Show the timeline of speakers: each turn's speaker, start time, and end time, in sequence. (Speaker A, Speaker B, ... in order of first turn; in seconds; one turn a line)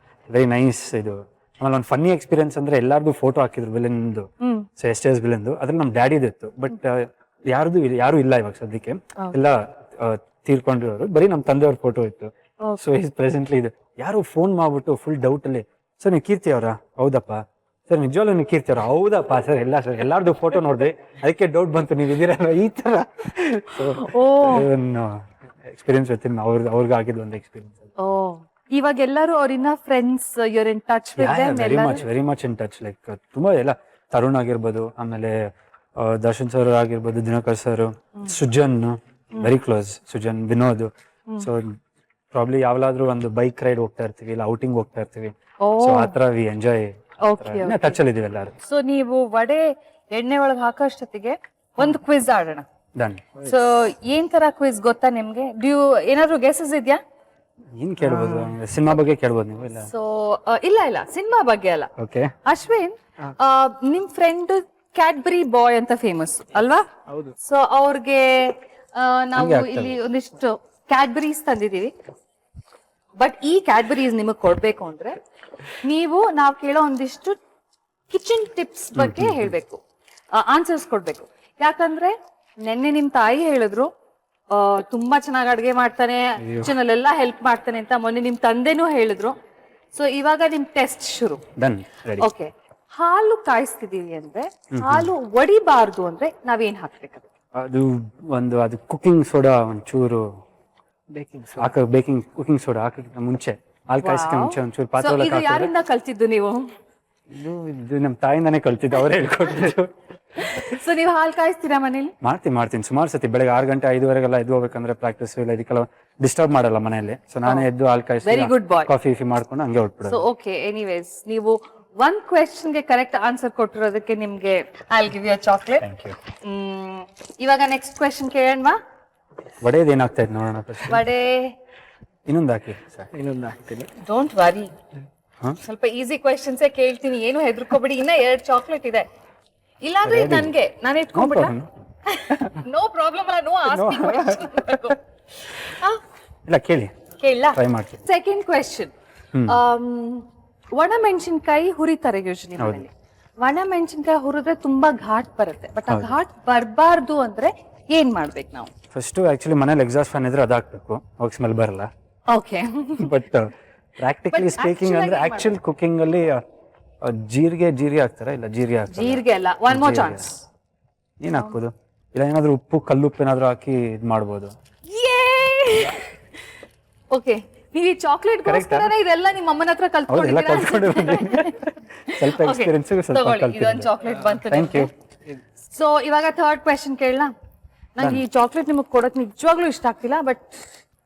Speaker A: 0.3-4.3
Speaker B: 4.4-4.7
Speaker A: 4.8-27.9
Speaker B: 23.9-24.7
Speaker B: 28.0-32.0
Speaker A: 31.2-35.4
Speaker A: 36.0-41.8
Speaker A: 42.3-48.5
Speaker B: 45.6-46.2
Speaker B: 47.2-48.0
Speaker B: 48.6-52.6
Speaker A: 53.0-53.3
Speaker B: 53.5-57.0
Speaker A: 57.8-59.9
Speaker C: 58.0-58.5
Speaker B: 59.8-61.9
Speaker A: 62.0-62.3
Speaker B: 62.4-66.9
Speaker C: 67.1-67.3
Speaker B: 67.4-71.9
Speaker A: 69.3-70.0
Speaker B: 73.2-75.2
Speaker B: 75.8-77.4
Speaker B: 78.1-79.8
Speaker A: 79.0-79.5
Speaker B: 80.3-83.9
Speaker B: 84.5-89.3
Speaker A: 86.4-86.7
Speaker B: 89.9-91.4
Speaker A: 91.6-92.3
Speaker B: 92.2-97.3
Speaker A: 94.7-95.1
Speaker A: 97.5-100.2
Speaker C: 101.1-101.8
Speaker A: 101.6-105.7
Speaker B: 104.0-106.7
Speaker A: 107.3-109.9
Speaker B: 110.4-112.1
Speaker A: 112.2-120.2
Speaker B: 118.2-118.9
Speaker B: 120.1-125.9
Speaker A: 125.8-126.2
Speaker B: 126.4-128.8
Speaker A: 129.6-131.0
Speaker B: 130.9-131.5
Speaker A: 132.3-133.1
Speaker C: 133.1-133.9
Speaker B: 134.0-134.7
Speaker B: 135.6-139.1
Speaker B: 139.8-141.5
Speaker A: 140.1-140.5
Speaker A: 141.2-141.7
Speaker B: 142.1-146.0
Speaker A: 143.7-144.9
Speaker A: 146.5-146.9
Speaker B: 147.2-148.9
Speaker A: 147.5-148.0
Speaker A: 149.3-149.6
Speaker B: 149.5-158.7
Speaker A: 152.6-152.8
Speaker A: 155.9-156.2
Speaker A: 158.9-161.9
Speaker B: 162.3-163.1
Speaker A: 163.0-166.4
Speaker B: 164.3-165.6
Speaker A: 167.0-170.3
Speaker B: 168.9-170.4
Speaker A: 171.2-174.5
Speaker B: 174.9-176.1
Speaker B: 177.1-184.9
Speaker A: 178.4-178.9
Speaker A: 180.1-181.6
Speaker A: 182.1-184.9
Speaker C: 184.1-184.4
Speaker B: 185.7-187.3
Speaker B: 188.0-190.7
Speaker A: 188.0-188.2